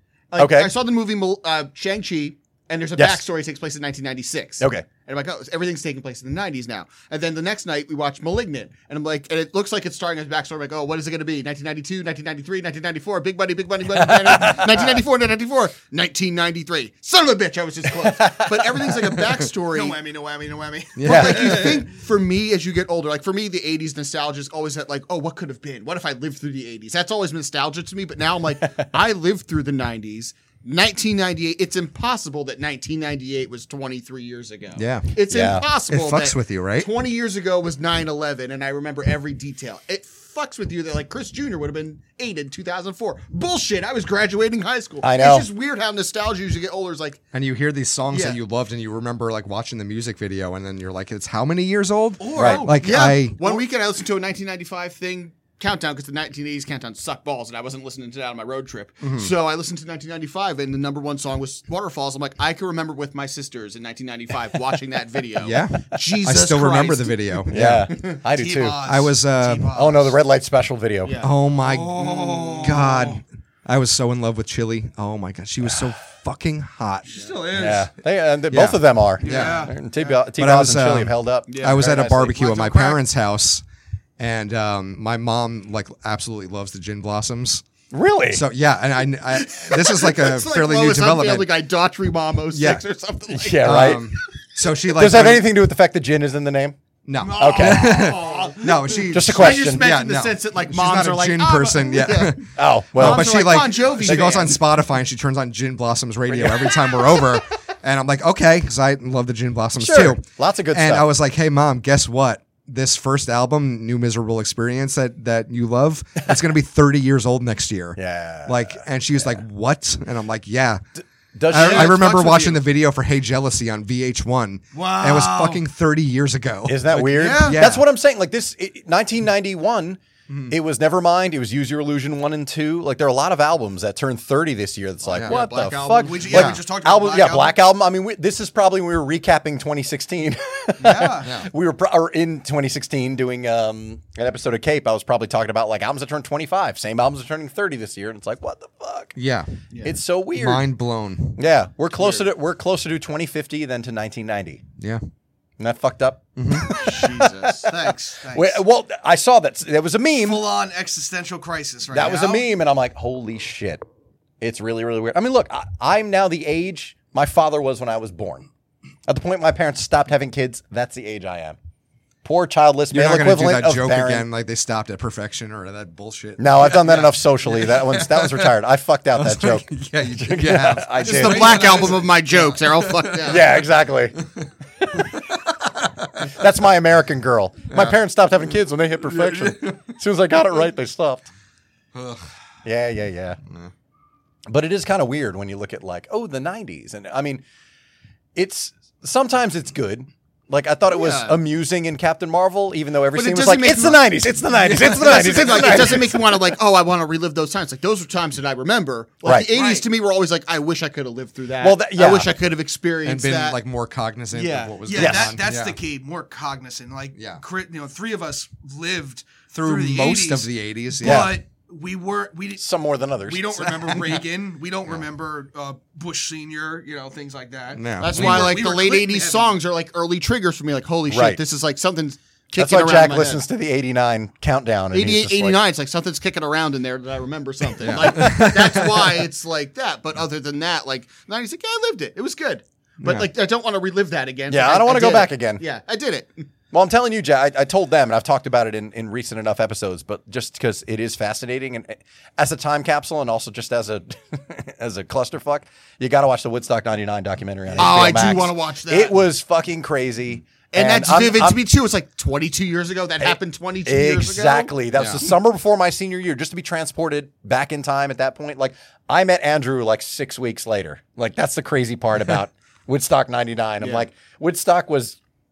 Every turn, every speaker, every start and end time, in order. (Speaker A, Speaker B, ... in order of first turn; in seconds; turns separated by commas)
Speaker A: 0.3-20.0, Speaker B: 0.4-0.7, Speaker B: 3.0-3.2, Speaker B: 4.6-4.9, Speaker B: 14.0-15.0, Speaker B: 18.1-18.9, Speaker C: 19.6-21.8, Speaker D: 21.0-21.8, Speaker A: 21.1-47.2, Speaker B: 21.1-21.4, Speaker D: 34.8-35.1, Speaker B: 35.3-35.7, Speaker D: 35.9-36.9, Speaker B: 45.0-45.5, Speaker D: 47.3-53.4, Speaker A: 48.1-48.4, Speaker C: 52.2-53.5, Speaker B: 52.4-52.7, Speaker A: 52.8-67.5, Speaker D: 59.0-59.3, Speaker D: 65.4-67.9, Speaker B: 67.5-68.8, Speaker C: 68.3-70.2, Speaker D: 68.8-69.7, Speaker B: 69.7-71.2, Speaker A: 71.0-71.3, Speaker D: 71.2-77.3, Speaker C: 71.6-73.2, Speaker A: 72.0-72.9, Speaker C: 77.1-77.9, Speaker B: 77.5-82.4, Speaker D: 78.5-79.7, Speaker C: 79.2-80.2, Speaker D: 80.3-83.6, Speaker A: 81.5-83.0, Speaker D: 84.2-87.6, Speaker B: 87.9-88.4, Speaker D: 88.3-91.5, Speaker A: 89.3-94.0, Speaker D: 92.5-92.8, Speaker B: 93.3-94.1, Speaker D: 93.6-95.5, Speaker B: 94.9-96.8, Speaker D: 97.1-120.8, Speaker C: 97.2-98.3, Speaker B: 97.3-98.0, Speaker A: 97.9-104.6, Speaker B: 99.1-99.9, Speaker B: 102.5-104.3, Speaker B: 106.3-107.2, Speaker B: 109.8-111.1, Speaker B: 118.0-119.4, Speaker B: 121.3-122.6, Speaker D: 121.5-127.8, Speaker C: 124.7-125.6, Speaker B: 126.7-149.2, Speaker C: 127.0-127.7, Speaker D: 130.3-130.6, Speaker A: 135.1-136.4, Speaker D: 135.1-135.4, Speaker C: 136.0-137.6, Speaker D: 136.3-136.6, Speaker C: 140.8-141.3, Speaker D: 141.2-141.5, Speaker D: 149.2-149.5, Speaker B: 149.8-150.7, Speaker D: 150.3-151.4, Speaker B: 151.4-154.6, Speaker A: 152.0-152.2, Speaker B: 155.6-157.7, Speaker D: 156.4-156.8, Speaker A: 156.8-157.7, Speaker C: 157.6-158.6, Speaker B: 158.3-160.4, Speaker C: 160.2-162.5, Speaker B: 161.9-163.8, Speaker B: 164.4-168.5, Speaker B: 169.1-171.6, Speaker B: 172.2-174.3, Speaker D: 172.9-178.5, Speaker B: 176.4-181.7, Speaker D: 179.2-183.5, Speaker A: 181.0-183.5, Speaker C: 181.2-182.0, Speaker B: 183.2-184.2, Speaker D: 185.0-186.3, Speaker B: 186.2-191.3, Speaker D: 187.7-188.0, Speaker D: 189.0-189.9, Speaker D: 191.9-192.3, Speaker B: 192.7-193.4, Speaker B: 194.5-197.4, Speaker B: 198.3-206.6, Speaker A: 200.9-201.4, Speaker A: 203.1-204.0, Speaker D: 204.6-205.8, Speaker A: 204.7-213.6, Speaker B: 209.2-209.5, Speaker C: 209.5-209.9, Speaker B: 211.6-212.4, Speaker D: 213.0-215.8, Speaker A: 214.3-214.8, Speaker C: 214.8-222.7, Speaker B: 214.9-215.3, Speaker D: 217.2-217.4, Speaker D: 219.5-221.3, Speaker B: 221.0-221.4, Speaker B: 222.6-223.9, Speaker C: 223.2-229.6, Speaker D: 223.9-224.2, Speaker D: 227.7-228.6, Speaker A: 228.0-233.4, Speaker B: 231.1-231.4, Speaker B: 232.6-235.6, Speaker A: 234.9-246.5, Speaker D: 237.8-239.2, Speaker D: 243.0-243.3, Speaker B: 244.5-245.6, Speaker B: 246.7-261.6, Speaker D: 257.8-258.3, Speaker A: 257.8-259.2, Speaker A: 260.7-264.7, Speaker B: 263.2-275.2, Speaker D: 265.0-265.2, Speaker A: 273.8-274.1